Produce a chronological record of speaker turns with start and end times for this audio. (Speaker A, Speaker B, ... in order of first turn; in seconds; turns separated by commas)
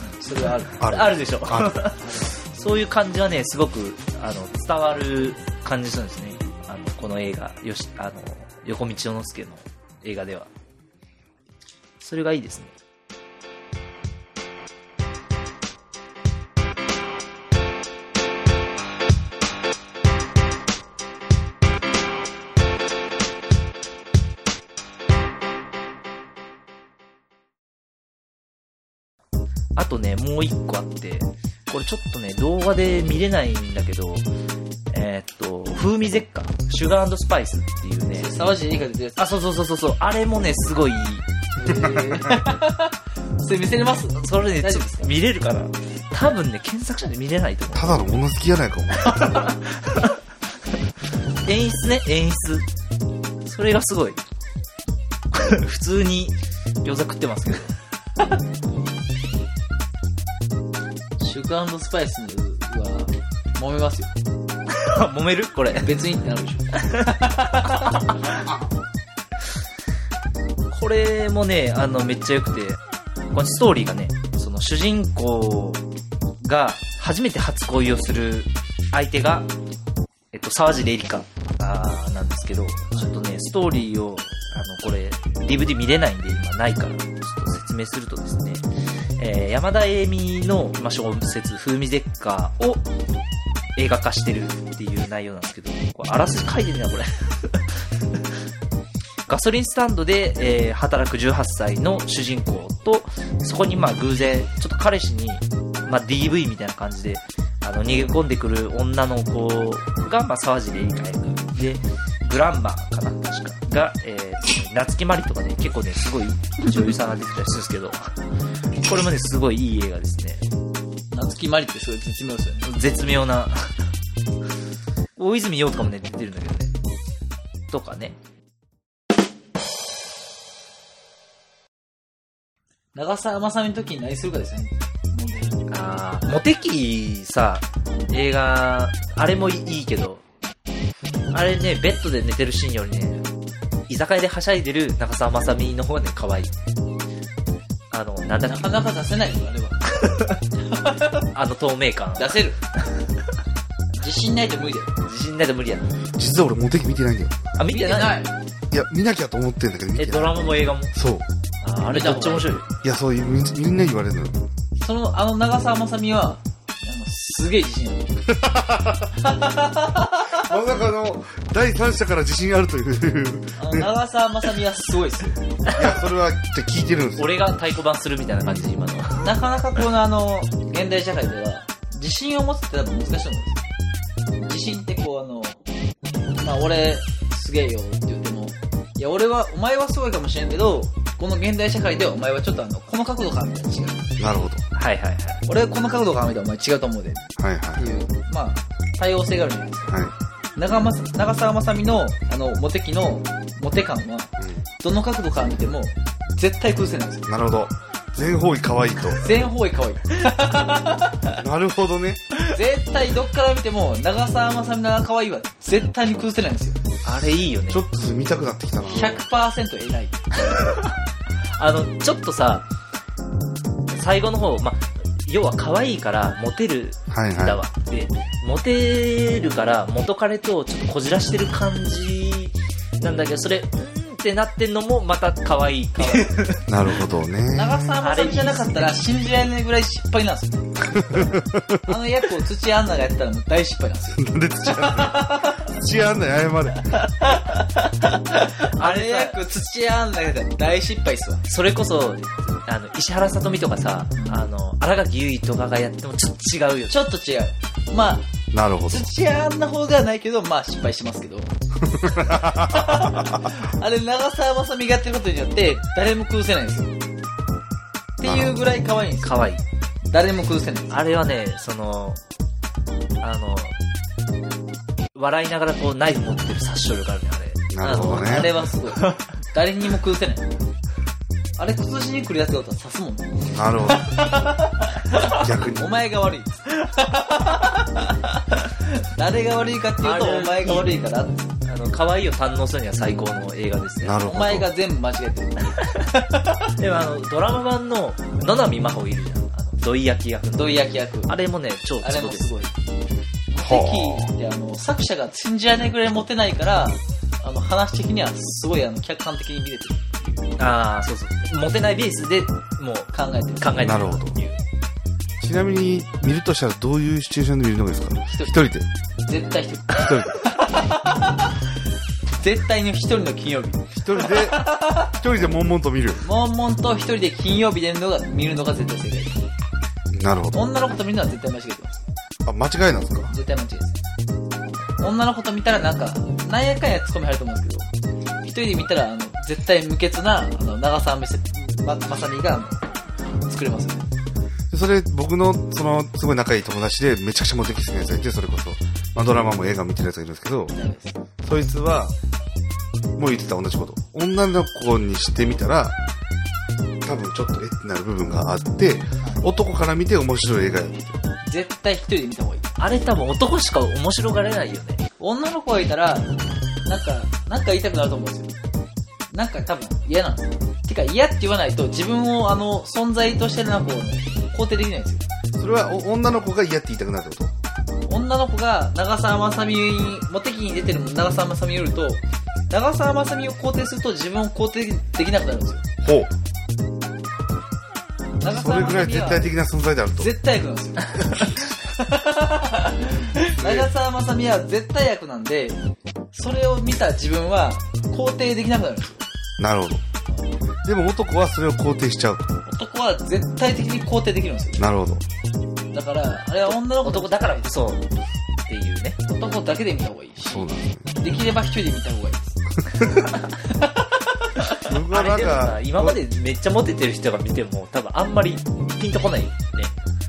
Speaker A: 0.2-0.8, Speaker B: 0.8-1.8, Speaker C: 0.8-10.5, Speaker A: 2.0-2.3, Speaker C: 12.0-12.7, Speaker C: 29.8-34.3, Speaker C: 34.9-38.5, Speaker A: 38.2-39.2, Speaker C: 39.2-41.3, Speaker A: 41.6-45.1, Speaker C: 44.2-48.0, Speaker B: 47.7-49.5, Speaker C: 49.1-50.2, Speaker C: 51.5-52.7, Speaker C: 53.4-54.2, Speaker C: 55.3-57.7, Speaker A: 61.2-64.1, Speaker C: 64.7-65.9, Speaker A: 65.8-68.0, Speaker C: 66.8-68.3, Speaker C: 70.7-72.8, Speaker C: 73.3-75.8, Speaker C: 76.4-79.5, Speaker C: 80.3-88.7, Speaker C: 89.2-92.8, Speaker C: 93.8-98.2, Speaker C: 99.3-118.1, Speaker C: 118.8-120.4, Speaker A: 121.1-122.7, Speaker C: 122.6-123.7, Speaker C: 125.2-126.7, Speaker C: 127.7-128.2, Speaker A: 132.9-135.6, Speaker C: 135.7-140.2, Speaker C: 141.3-143.3, Speaker C: 143.9-146.6, Speaker C: 147.9-148.7, Speaker A: 148.4-149.8, Speaker C: 150.0-150.4, Speaker A: 150.7-151.2, Speaker C: 151.3-153.1, Speaker A: 152.2-152.6, Speaker A: 154.0-154.9, Speaker C: 155.0-155.9, Speaker B: 156.2-157.4, Speaker C: 157.6-158.2, Speaker A: 157.7-158.3, Speaker B: 158.7-161.3, Speaker C: 160.0-160.9, Speaker C: 161.6-162.7, Speaker A: 161.9-162.5, Speaker B: 162.8-164.4, Speaker A: 164.8-168.2, Speaker B: 168.3-169.2, Speaker A: 169.2-170.4, Speaker B: 170.3-173.9, Speaker A: 173.6-175.5, Speaker B: 175.7-177.4, Speaker C: 177.2-179.3, Speaker A: 179.2-183.6, Speaker A: 184.4-185.6, Speaker A: 186.4-194.1, Speaker B: 194.2-194.6, Speaker C: 194.8-195.4, Speaker A: 195.5-200.0, Speaker B: 197.4-197.9, Speaker B: 199.9-200.1, Speaker A: 200.6-207.3, Speaker B: 204.4-204.7, Speaker B: 207.3-209.4, Speaker A: 209.2-211.4, Speaker B: 211.3-212.2, Speaker A: 212.5-216.8, Speaker C: 217.0-217.8, Speaker B: 217.6-219.2, Speaker A: 218.9-220.4, Speaker C: 221.6-222.7, Speaker C: 223.9-236.7, Speaker B: 227.1-227.6, Speaker A: 236.0-236.5, Speaker B: 236.7-238.0, Speaker A: 237.5-241.1, Speaker C: 238.0-238.9, Speaker B: 240.8-241.9, Speaker A: 241.9-245.6, Speaker B: 244.2-247.0, Speaker A: 246.9-251.4, Speaker C: 248.7-249.4, Speaker C: 251.5-257.0, Speaker A: 254.2-254.4, Speaker A: 256.9-258.3, Speaker B: 258.5-259.1, Speaker A: 258.9-261.5, Speaker B: 261.8-263.5, Speaker A: 262.3-266.9, Speaker A: 268.2-271.0, Speaker B: 268.2-268.7, Speaker C: 269.2-269.6, Speaker C: 270.9-272.2, Speaker C: 273.2-273.8, Speaker C: 275.1-279.2, Speaker B: 277.7-278.5, Speaker A: 277.9-280.5, Speaker A: 281.6-291.5, Speaker B: 283.5-284.2, Speaker B: 285.4-286.0, Speaker C: 290.0-291.0, Speaker C: 291.6-294.2, Speaker B: 294.0-294.7, Speaker A: 294.2-296.7, Speaker C: 296.8-302.5, Speaker A: 300.6-301.3, Speaker A: 302.0-302.7, Speaker A: 303.5-310.5, Speaker B: 303.6-304.3, Speaker C: 310.6-314.6, Speaker A: 313.1-314.1, Speaker B: 313.8-314.4, Speaker B: 315.4-318.9, Speaker A: 318.3-318.6, Speaker A: 319.3-321.5, Speaker B: 319.9-320.5, Speaker A: 322.4-325.1, Speaker B: 323.9-326.3, Speaker A: 326.2-329.4, Speaker B: 330.1-330.7, Speaker A: 330.5-331.9, Speaker B: 332.4-333.4, Speaker A: 333.3-334.0, Speaker A: 335.0-337.9, Speaker A: 338.4-342.8, Speaker A: 343.4-344.1, Speaker B: 344.7-350.8, Speaker A: 350.7-351.2, Speaker B: 351.4-352.1, Speaker B: 353.2-356.0, Speaker B: 357.0-361.2, Speaker A: 361.4-362.7, Speaker C: 362.8-365.0, Speaker A: 365.2-366.3, Speaker A: 366.9-368.5, Speaker A: 369.3-375.2, Speaker B: 375.6-377.5, Speaker A: 378.1-385.9, Speaker B: 386.0-386.3, Speaker A: 388.4-389.5, Speaker B: 388.4-390.3, Speaker A: 390.2-395.8, Speaker B: 393.6-393.9, Speaker A: 396.3-399.2, Speaker B: 399.6-400.0, Speaker B: 400.9-402.5, Speaker A: 402.7-404.8, Speaker B: 404.8-405.2, Speaker A: 405.9-407.8, Speaker C: 407.0-408.1, Speaker C: 408.7-409.2, Speaker A: 409.3-412.6, Speaker B: 410.4-411.1, Speaker A: 413.7-414.7, Speaker B: 414.9-416.2, Speaker C: 415.1-419.9